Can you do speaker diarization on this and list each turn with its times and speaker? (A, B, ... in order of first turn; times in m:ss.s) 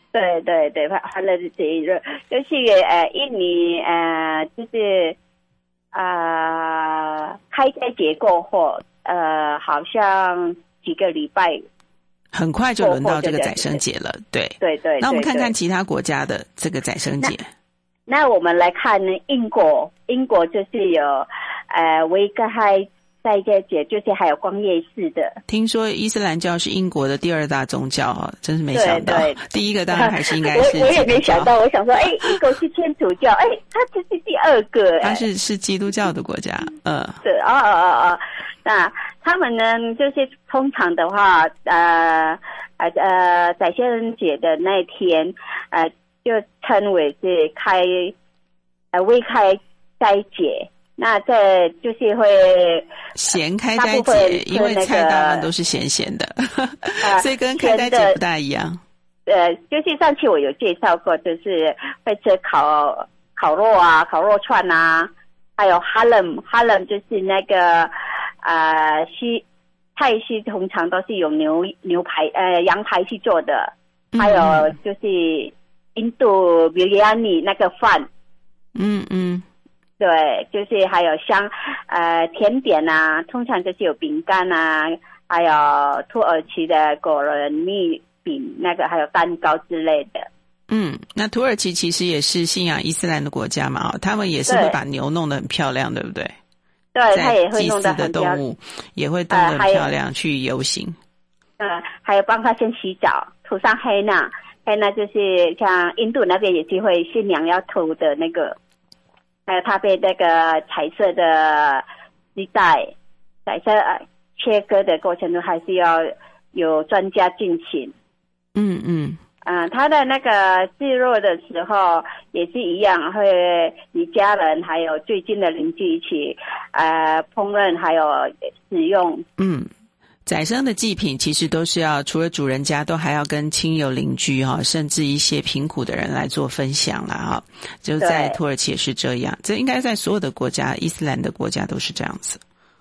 0:00.1-0:05.2 A
0:05.9-0:11.6 A
0:12.3-0:17.5 B
0:12.8-0:13.8 A
0:14.6-0:15.5 A
0:18.1-0:25.4 A
0:25.5-0:31.5 B
0:28.7-0:29.4 A
0:29.9-0:35.2 A
0:35.0-0:37.2 B
0:37.2-0:48.2 A
0:48.9-0:52.8 A
0:53.2-0:58.8 B
0:53.8-0:55.5 A
0:57.0-0:58.2 A
0:59.3-1:09.4 A
1:10.0-1:18.1 A
1:14.1-1:14.7 B
1:18.8-1:19.4 B
1:20.0-1:30.3 A
1:30.7-1:36.4 B
1:34.5-1:34.8 A
1:37.0-1:38.4 A
1:37.1-1:41.0 B
1:39.3-1:39.9 A
1:41.6-1:48.6 A
1:49.5-1:51.8 A
1:52.4-1:52.9 A
1:53.5-1:57.9 A
1:58.6-1:59.2 B
1:59.4-2:09.3 A
2:09.4-2:09.7 B
2:10.3-2:22.4 B
2:18.0-2:18.4 A